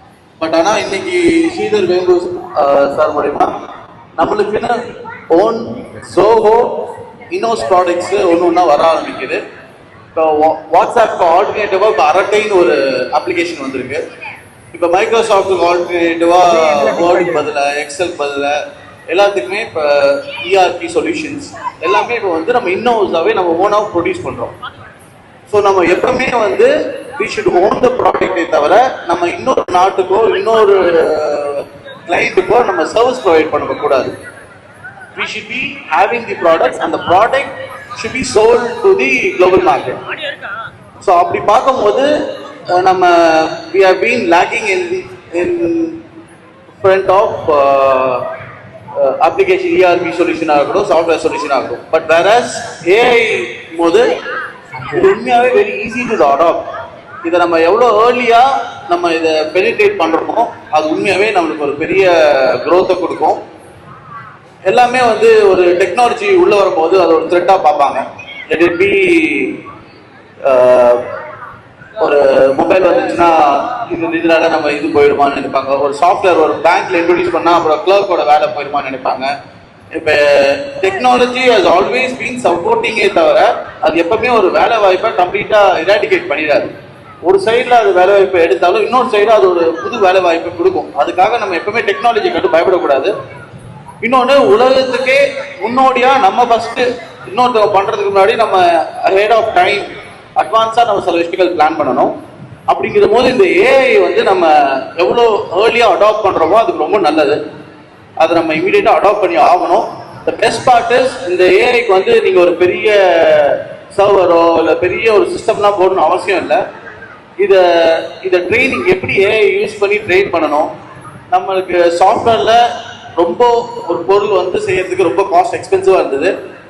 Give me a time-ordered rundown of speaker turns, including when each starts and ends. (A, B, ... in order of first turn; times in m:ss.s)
0:00.4-0:03.5 A
0:04.2-0:09.4 A
0:10.1-0:14.0 A
0:14.7-0:18.6 A
0:19.1-0:24.5 A
0:25.5-0:34.1 A
0:35.1-0:40.1 A
0:41.0-0:46.0 A
0:46.7-0:48.3 A
0:48.9-0:54.2 A
0:54.8-0:56.6 A
0:57.2-1:03.4 A
1:04.7-1:09.6 A
1:10.4-1:11.0 A
1:12.0-1:19.3 A
1:19.9-1:26.7 A
1:27.2-1:33.1 A
1:34.0-1:42.1 A
1:42.7-1:47.4 A
1:48.2-1:56.6 A
1:57.4-2:00.7 A
2:01.3-2:02.6 A
2:03.2-2:06.3 A